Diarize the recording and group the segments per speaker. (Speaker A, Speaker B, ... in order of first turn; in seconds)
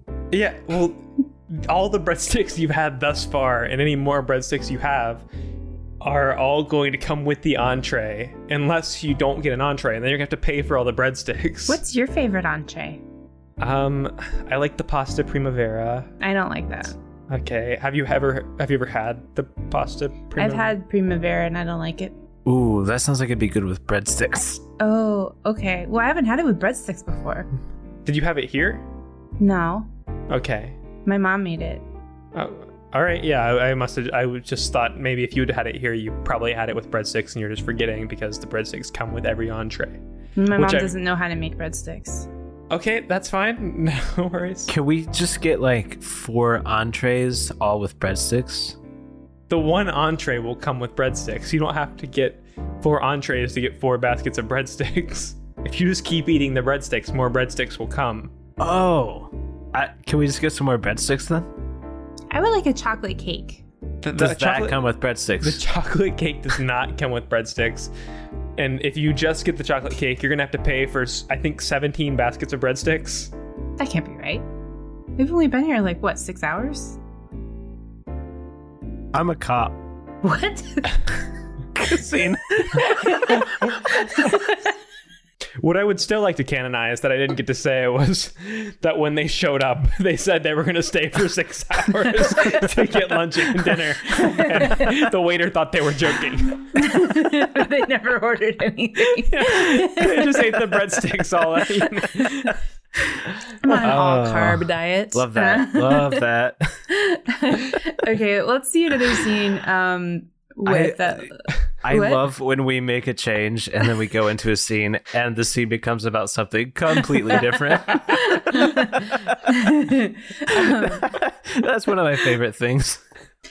Speaker A: 0.3-5.2, 6.0-11.8, 13.6-16.1, 17.3-20.7, 28.1-28.8, 30.3-30.8, 32.3-40.0, 40.5-40.9, 42.7-44.7, 49.5-58.3, 64.0-64.8, 65.4-67.9, 68.6-73.3, 85.6-96.7, 99.2-102.5
Speaker B: 11.7-13.0, 16.2-16.9, 20.4-22.1, 24.8-27.5, 29.4-29.9, 31.0-31.8, 40.4-42.3, 62.3-63.6, 73.8-74.5, 75.2-77.0, 80.2-81.0, 82.7-84.7, 92.4-92.7, 94.2-95.0, 96.7-101.0, 101.8-102.5, 103.6-106.2, 106.9-112.2, 117.9-121.1
Speaker C: 22.4-24.6, 44.7-48.8, 58.6-61.5, 64.2-65.6, 79.1-79.8, 81.7-83.3, 103.7-106.8, 110.6-111.3, 111.8-119.4, 120.5-123.0